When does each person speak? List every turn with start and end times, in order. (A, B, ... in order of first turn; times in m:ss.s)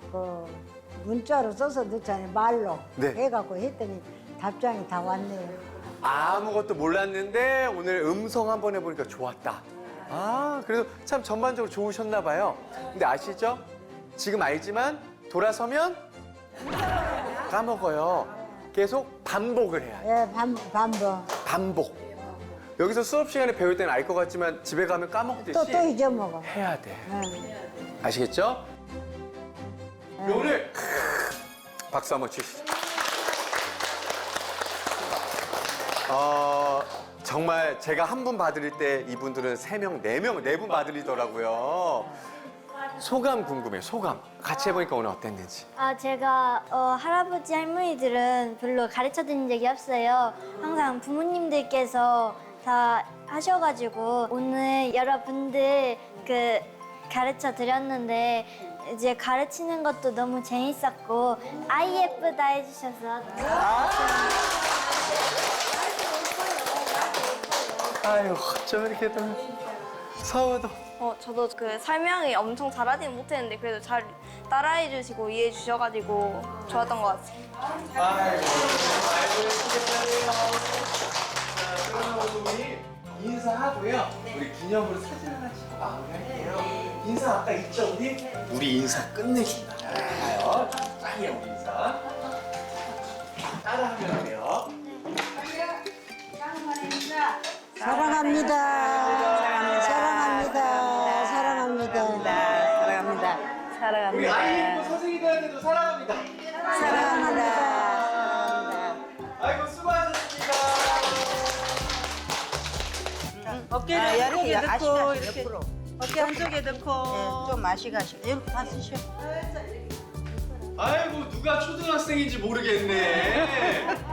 0:00.1-0:05.6 A
0:03.0-0:03.2 B
0:06.0-0:13.6 B
0:14.2-0:16.0 B
0:17.5-0:20.1 B
0:20.0-0:21.3 A
0:21.4-0:22.0 B
0:22.8-0:27.1 B
0:25.4-0:26.5 A
0:27.1-0:27.5 A
0:28.0-0:28.7 B
0:30.2-0:30.5 A
0:30.2-0:31.4 B
0:31.9-0:32.7 B
0:36.1-0:42.1 B
0:43.0-0:45.7 B
0:45.8-1:03.6 C
1:03.5-1:04.4 B
1:08.0-1:09.5 B
1:10.2-1:10.8 B
1:11.0-1:17.4 D
1:17.9-1:20.9 B
1:21.5-1:32.0 B
1:33.6-1:34.7 B
1:37.8-1:43.3 A
1:37.8-1:41.7 E
1:38.9-1:40.0 B
1:41.9-1:43.2 B
1:42.2-1:44.8 E
1:44.1-1:51.7 B
1:44.2-1:44.6 A
1:46.6-1:48.9 A
1:46.8-1:47.8 E
1:53.4-1:59.1 E
1:53.9-1:55.2 A
1:56.1-1:57.6 B
2:00.8-2:04.0 B